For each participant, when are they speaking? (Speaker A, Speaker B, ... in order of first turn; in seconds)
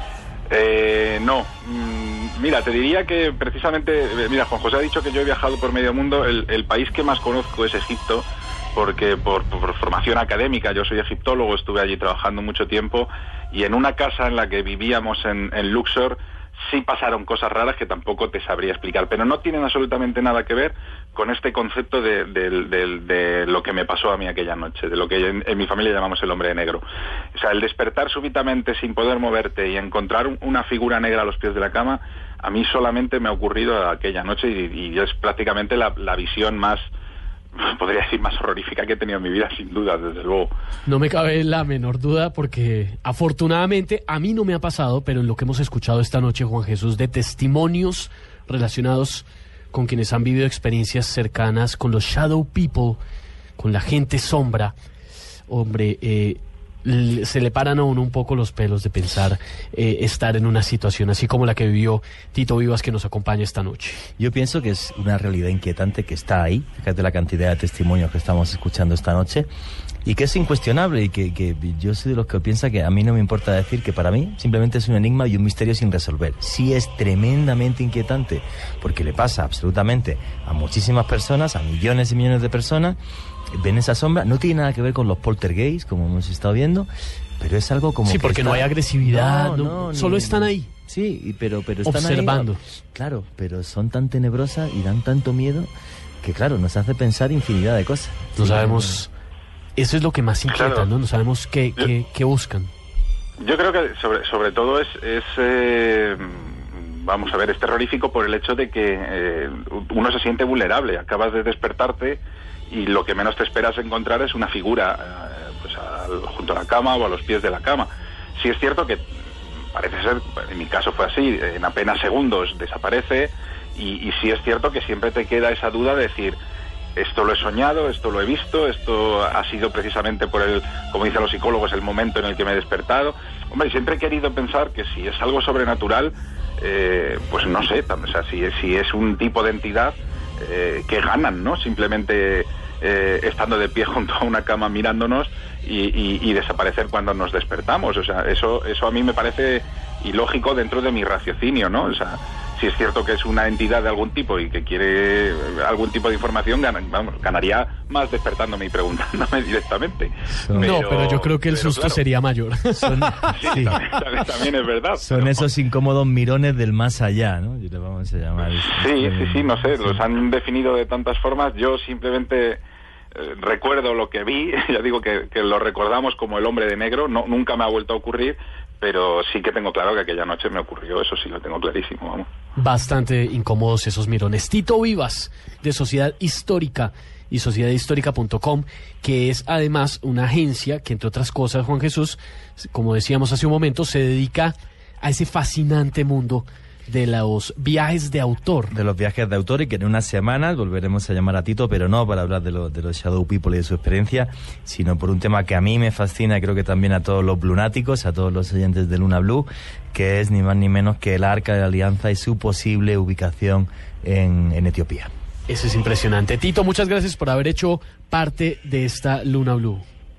Speaker A: 0.5-36.9, 37.6-40.5, 100.5-100.9, 103.4-119.0, 119.7-126.4, 127.0-162.0, 163.3-165.5, 168.6-172.6, 173.1-182.3
Speaker B: 40.9-53.0, 53.6-54.7, 55.5-64.1, 88.1-90.7, 91.9-92.6, 98.4-99.1, 99.8-102.7, 160.6-163.4, 182.6-198.7, 215.5-219.8
Speaker C: 64.2-69.5, 70.0-83.0, 83.5-95.7, 96.2-99.0, 160.4-160.7, 162.8-163.9, 165.0-170.0, 198.7-215.1